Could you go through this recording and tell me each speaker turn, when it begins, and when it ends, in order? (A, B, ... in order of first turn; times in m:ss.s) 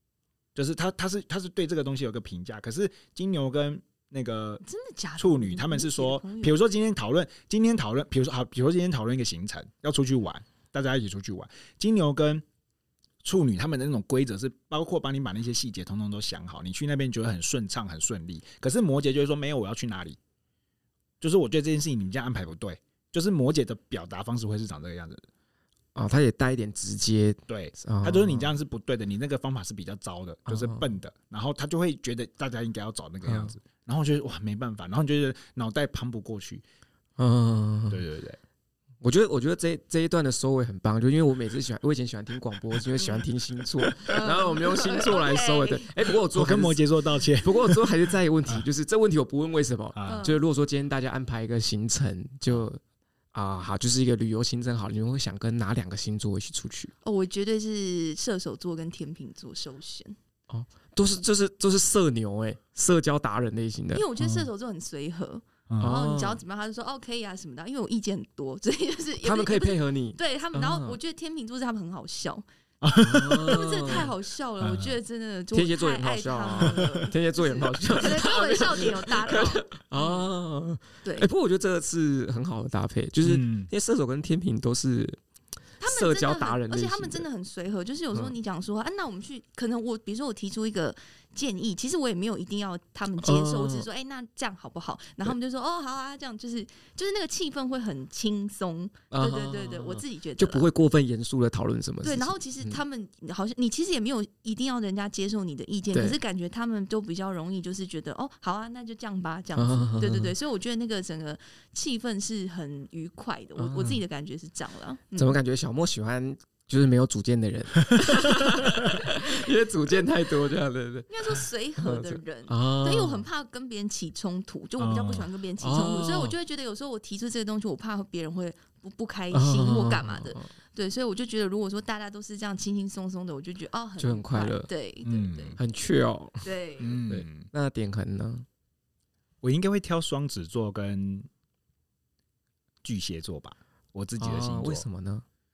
0:00.5-0:04.6 A
0:04.6-0:06.6 B
0:05.2-0:12.4 A
0:13.2-0:20.2 A
0:21.2-0:25.3 A
0:25.9-0:28.5 C
0:27.5-0:36.6 A
0:30.5-0:30.9 C
0:33.2-0:33.5 C
0:37.2-0:38.0 C
0:37.9-0:38.4 A
0:39.0-0:46.8 C
0:44.1-0:46.1 B
0:46.3-0:48.6 A
0:47.4-0:52.8 C
0:49.9-0:50.2 A
0:50.0-0:50.4 B
0:53.3-0:56.9 C
0:57.0-1:00.2 B
1:00.5-1:04.2 C
1:03.9-1:12.4 B
1:05.7-1:06.0 A
1:05.8-1:06.4 C
1:09.2-1:11.0 C
1:12.8-1:13.7 A
1:12.9-1:14.1 C
1:13.1-1:20.2 B
1:14.6-1:15.0 A
1:15.5-1:25.2 C
1:21.0-1:21.3 B
1:23.2-1:23.7 A
1:25.8-1:40.6 B
1:25.8-1:27.3 C
1:33.2-1:33.9 C
1:39.1-1:42.8 C
1:42.0-1:55.4 B
1:45.9-1:46.2 C
1:49.6-1:50.3 C
1:53.6-1:54.0 C
1:55.2-2:03.2 C
2:01.1-2:15.6 B
2:04.8-2:05.3 A
2:05.6-2:06.3 C
2:09.3-2:10.5 C
2:14.0-2:14.7 C
2:15.0-2:15.6 A
2:15.6-2:16.5 C
2:16.4-2:17.0 B
2:16.8-2:17.5 A
2:17.1-2:18.4 C
2:19.4-2:21.3 A
2:22.8-2:24.8 A
2:24.2-2:25.2 C